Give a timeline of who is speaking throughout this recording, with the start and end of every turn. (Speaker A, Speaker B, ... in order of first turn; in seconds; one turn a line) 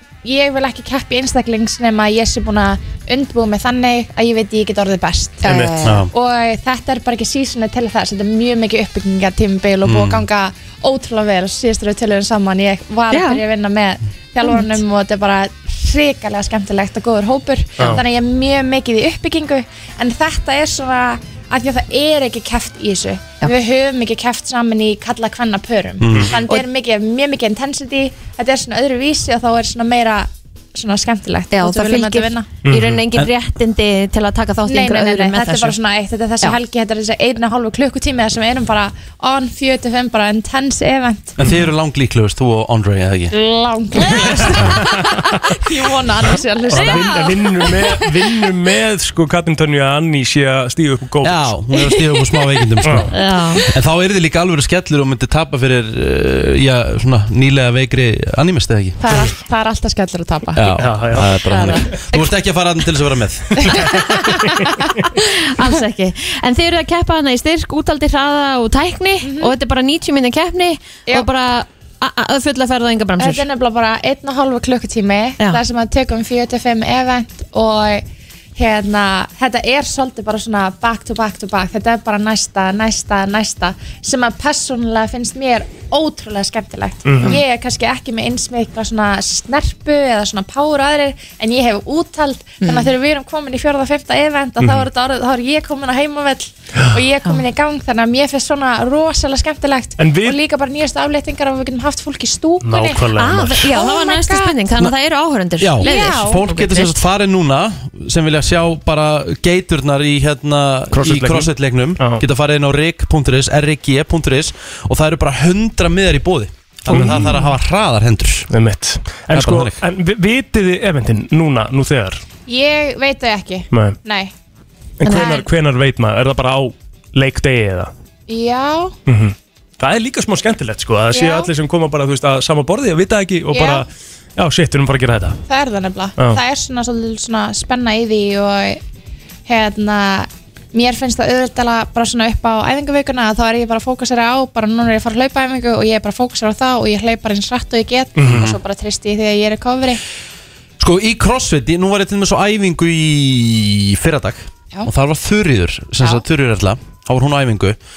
Speaker A: 0.2-32.5
Speaker B: 5.4-5.7
Speaker C: 5.4-5.9
Speaker D: 5.8-6.1
Speaker D: 9.8-10.3
Speaker C: 13.1-13.4
Speaker C: 14.4-14.7
Speaker D: 26.0-26.4
Speaker C: 31.5-35.8
Speaker B: 32.6-33.0
Speaker A: 34.7-41.4
Speaker D: 41.4-43.3
Speaker A: 43.3-48.2
Speaker B: 46.7-51.5
Speaker C: 46.7-47.2
Speaker D: 51.2-53.1
Speaker A: 51.7-52.7
Speaker B: 52.8-53.1
Speaker C: 53.1-53.6
Speaker D: 53.7-59.2
Speaker A: 59.0-60.7
Speaker D: 60.6-63.8
Speaker B: 60.8-61.4
Speaker A: 61.5-62.3
Speaker A: 63.5-64.9
Speaker C: 65.0-73.5
Speaker A: 69.2-69.5
Speaker A: 73.2-78.0
Speaker A: 78.6-103.1
Speaker B: 87.0-87.4
Speaker C: 92.6-92.9
Speaker B: 94.6-94.9
Speaker B: 96.8-97.0
Speaker B: 100.0-100.4
Speaker B: 102.6-103.7
Speaker C: 103.2-107.0
Speaker A: 103.6-104.6
Speaker D: 105.6-118.5
Speaker A: 105.8-106.4
Speaker B: 110.9-112.2
Speaker B: 116.9-117.4
Speaker B: 118.5-122.2
Speaker D: 119.3-119.8
Speaker A: 122.5-124.3
Speaker B: 123.7-124.0
Speaker B: 125.0-127.9
Speaker C: 125.1-125.3
Speaker A: 125.1-125.5
Speaker A: 128.3-128.9
Speaker B: 129.1-133.9
Speaker A: 131.1-131.5
Speaker A: 133.5-133.8
Speaker B: 134.4-135.4
Speaker A: 135.5-138.8
Speaker B: 136.2-136.4
Speaker A: 139.5-150.0
Speaker B: 148.2-148.4
Speaker D: 148.2-148.6
Speaker D: 150.8-157.8